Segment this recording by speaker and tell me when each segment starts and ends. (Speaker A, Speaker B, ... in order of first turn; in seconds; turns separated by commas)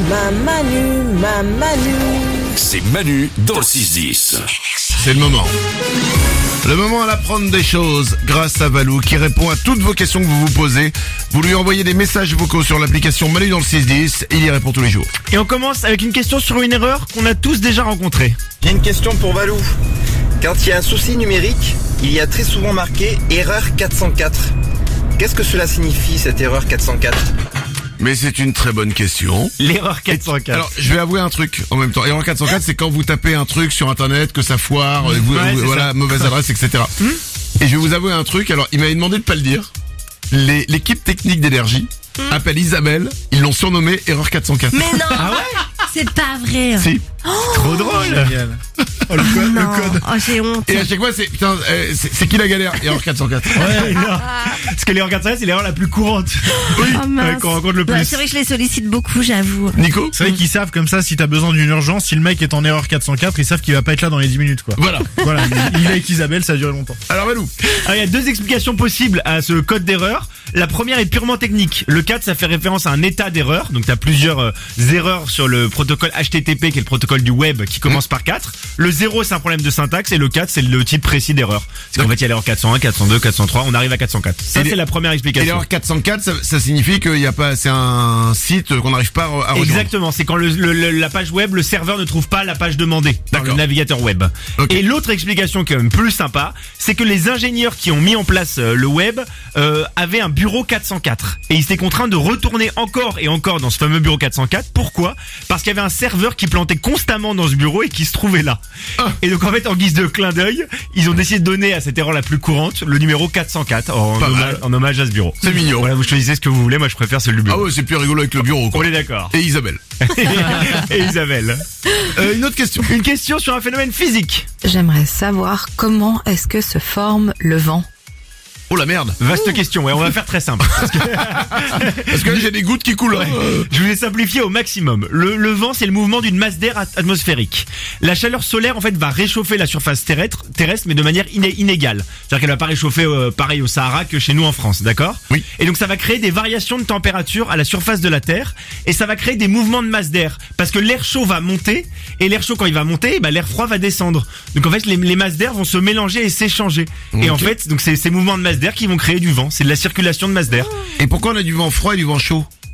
Speaker A: 2.5-4.5, Speaker B: 5.0-5.5, Speaker B: 6.6-15.1, Speaker C: 15.3-18.4, Speaker D: 18.6-19.7, Speaker D: 20.4-24.5, Speaker D: 25.2-27.3, Speaker B: 28.0-29.6, Speaker C: 29.6-30.7, Speaker B: 30.1-36.9, Speaker C: 35.1-36.3, Speaker B: 37.6-39.7, Speaker B: 40.3-45.0, Speaker E: 44.7-45.4, Speaker C: 45.1-45.6, Speaker E: 45.9-48.2, Speaker B: 46.8-47.0, Speaker C: 47.5-48.3, Speaker F: 47.5-50.1, Speaker E: 49.2-50.9, Speaker B: 50.7-53.9, Speaker F: 53.6-53.9, Speaker C: 53.6-58.2, Speaker E: 56.6-59.8, Speaker B: 56.8-57.0, Speaker B: 59.7-60.2, Speaker F: 60.1-67.0, Speaker B: 64.8-65.7, Speaker B: 67.1-67.5, Speaker C: 67.7-85.6, Speaker B: 84.5-84.8, Speaker B: 85.3-89.9, Speaker C: 89.5-108.6, Speaker B: 93.3-93.6, Speaker C: 109.2-117.6, Speaker B: 114.2-114.6, Speaker B: 115.4-115.9, Speaker B: 117.5-119.8, Speaker C: 118.7-119.3, Speaker C: 120.0-121.6, Speaker B: 122.0-122.9, Speaker C: 122.8-124.5, Speaker G: 124.6-127.8, Speaker B: 128.7-129.2, Speaker C: 129.2-132.4, Speaker B: 131.7-133.7, Speaker C: 133.1-160.7, Speaker B: 157.1-157.5, Speaker B: 161.0-162.5